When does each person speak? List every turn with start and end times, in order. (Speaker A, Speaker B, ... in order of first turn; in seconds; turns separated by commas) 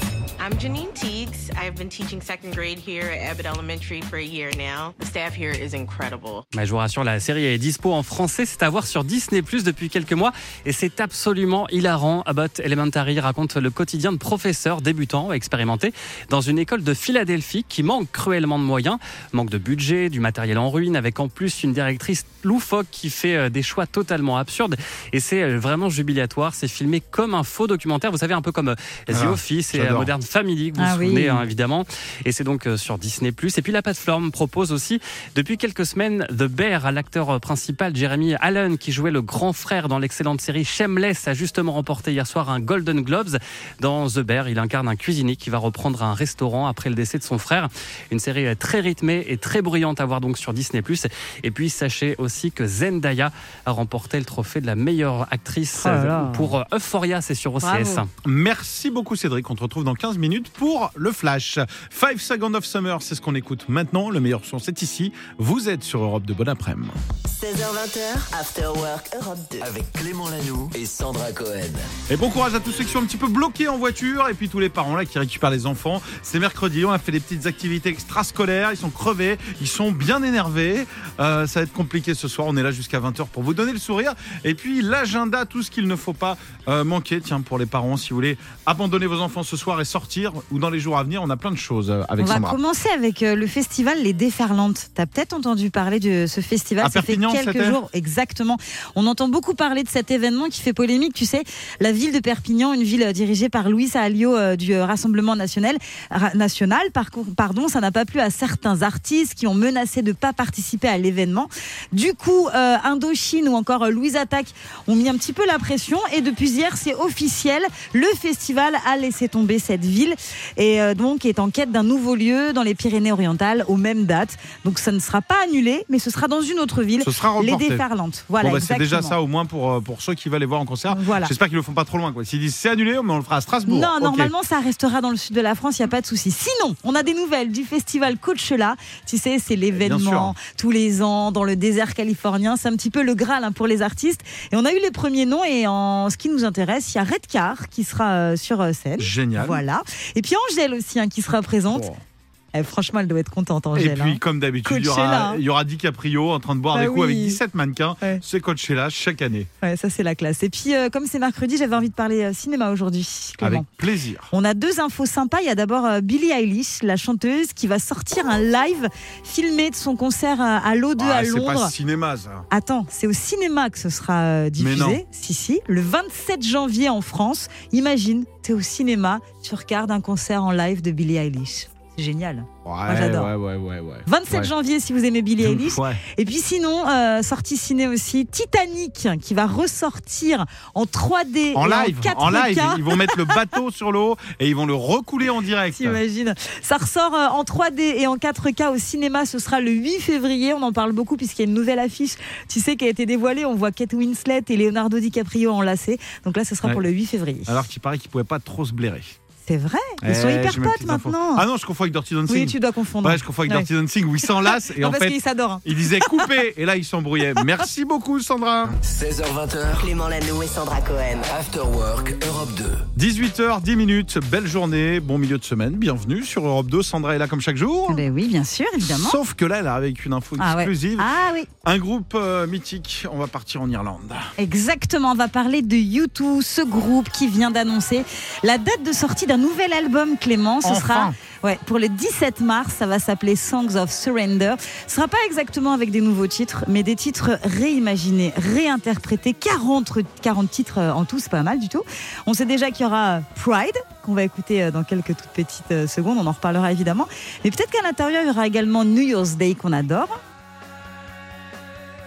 Speaker A: 0.4-6.5, Speaker B: 6.5-58.1, Speaker C: 29.1-30.1, Speaker D: 30.8-31.4, Speaker D: 55.7-56.5, Speaker D: 57.6-58.0, Speaker C: 58.2-67.0, Speaker E: 67.3-69.7, Speaker F: 69.6-71.8, Speaker C: 72.1-92.6, Speaker D: 92.2-129.2, Speaker C: 96.8-97.8, Speaker C: 127.0-127.8, Speaker C: 128.4-134.3, Speaker D: 130.9-131.3, Speaker D: 133.7-151.9, Speaker C: 139.7-140.3, Speaker C: 149.0-149.6, Speaker C: 151.7-152.0, Speaker D: 152.5-155.4, Speaker C: 153.7-159.5, Speaker D: 156.7-157.4, Speaker D: 159.6-163.7, Speaker C: 163.4-164.3, Speaker D: 164.3-171.7, Speaker C: 171.0-172.4, Speaker D: 172.5-183.3, Speaker C: 174.6-175.0, Speaker C: 182.6-184.5, Speaker D: 184.1-193.1, Speaker C: 185.4-186.0, Speaker C: 191.5-196.0, Speaker D: 195.7-207.6, Speaker C: 207.4-209.1, Speaker D: 209.4-211.4, Speaker C: 210.0-218.8, Speaker D: 212.3-213.7, Speaker D: 214.7-216.2, Speaker F: 218.8-219.9, Speaker E: 219.7-221.3, Speaker F: 221.2-222.8, Speaker C: 222.9-228.0, Speaker D: 227.9-229.2, Speaker C: 228.8-231.1, Speaker D: 230.4-231.5, Speaker C: 231.6-234.3, Speaker D: 234.4-260.2, Speaker C: 240.6-241.2